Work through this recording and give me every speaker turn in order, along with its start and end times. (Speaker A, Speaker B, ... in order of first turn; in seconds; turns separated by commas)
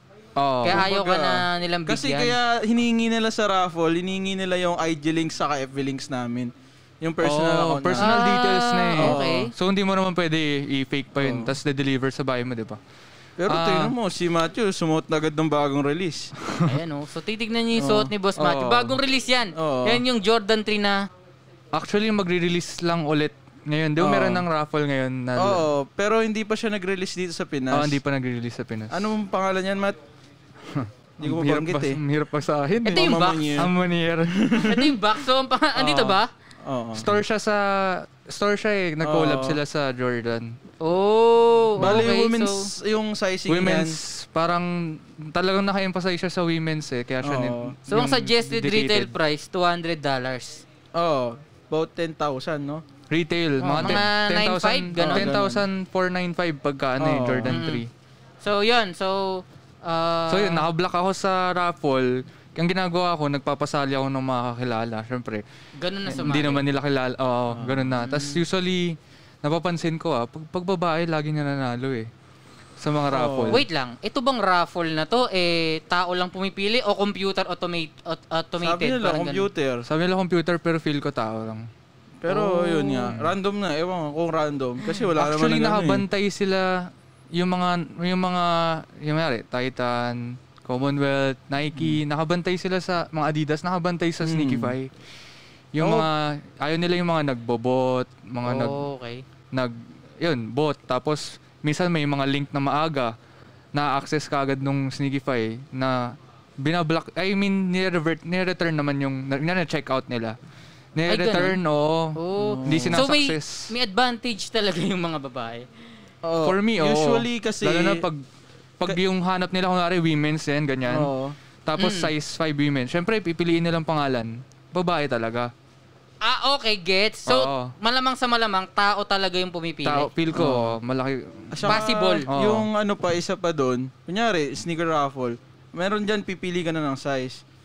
Speaker A: 0.4-0.9, Speaker B: 0.6-2.3, Speaker C: 0.7-8.2, Speaker A: 7.2-12.8, Speaker B: 8.0-9.5, Speaker C: 9.0-9.3, Speaker C: 11.2-11.5, Speaker C: 13.4-16.3, Speaker A: 13.5-13.9, Speaker B: 16.6-21.0, Speaker C: 17.8-18.1, Speaker A: 18.4-19.0, Speaker C: 19.6-20.0, Speaker A: 21.7-25.7, Speaker C: 24.0-24.4, Speaker C: 25.4-28.0, Speaker A: 27.7-29.1, Speaker C: 28.9-30.0, Speaker A: 30.7-34.6, Speaker C: 31.2-32.0, Speaker B: 32.9-33.6, Speaker C: 32.9-33.7, Speaker C: 34.4-34.9, Speaker B: 34.6-36.3, Speaker A: 35.8-36.2, Speaker C: 36.6-37.2, Speaker A: 37.0-40.6, Speaker C: 39.0-39.6, Speaker B: 40.8-42.7, Speaker C: 41.8-44.0, Speaker A: 41.8-42.1, Speaker A: 43.5-49.1, Speaker C: 47.2-47.8, Speaker B: 47.9-50.6, Speaker C: 51.0-52.8, Speaker A: 53.1-57.9, Speaker B: 53.6-55.3, Speaker C: 53.8-54.1, Speaker C: 55.0-55.7, Speaker C: 57.0-57.6, Speaker B: 57.5-57.8, Speaker B: 58.4-60.6, Speaker A: 60.3-65.4, Speaker B: 65.8-66.7, Speaker A: 66.1-72.1, Speaker C: 67.5-68.0, Speaker B: 68.0-68.4, Speaker A: 72.8-73.6, Speaker C: 73.1-73.6, Speaker B: 73.5-79.5, Speaker C: 78.6-79.9, Speaker A: 79.9-81.7, Speaker C: 82.2-86.0, Speaker B: 82.3-82.8, Speaker A: 83.0-83.3, Speaker A: 85.2-94.9, Speaker C: 91.7-92.0, Speaker C: 94.2-94.8, Speaker A: 95.7-98.8, Speaker C: 95.8-96.1, Speaker B: 98.4-99.2, Speaker A: 99.5-103.1, Speaker A: 103.7-110.4, Speaker A: 111.0-113.7, Speaker B: 111.1-111.6, Speaker B: 112.2-115.7, Speaker C: 112.4-113.0, Speaker C: 116.2-118.0, Speaker A: 116.4-118.2, Speaker A: 118.8-121.1, Speaker C: 120.9-121.4, Speaker A: 121.7-125.5, Speaker B: 121.8-122.1, Speaker B: 126.2-130.1, Speaker A: 127.3-127.7, Speaker A: 129.8-132.7, Speaker C: 130.3-130.8, Speaker C: 131.5-137.4, Speaker B: 131.7-132.3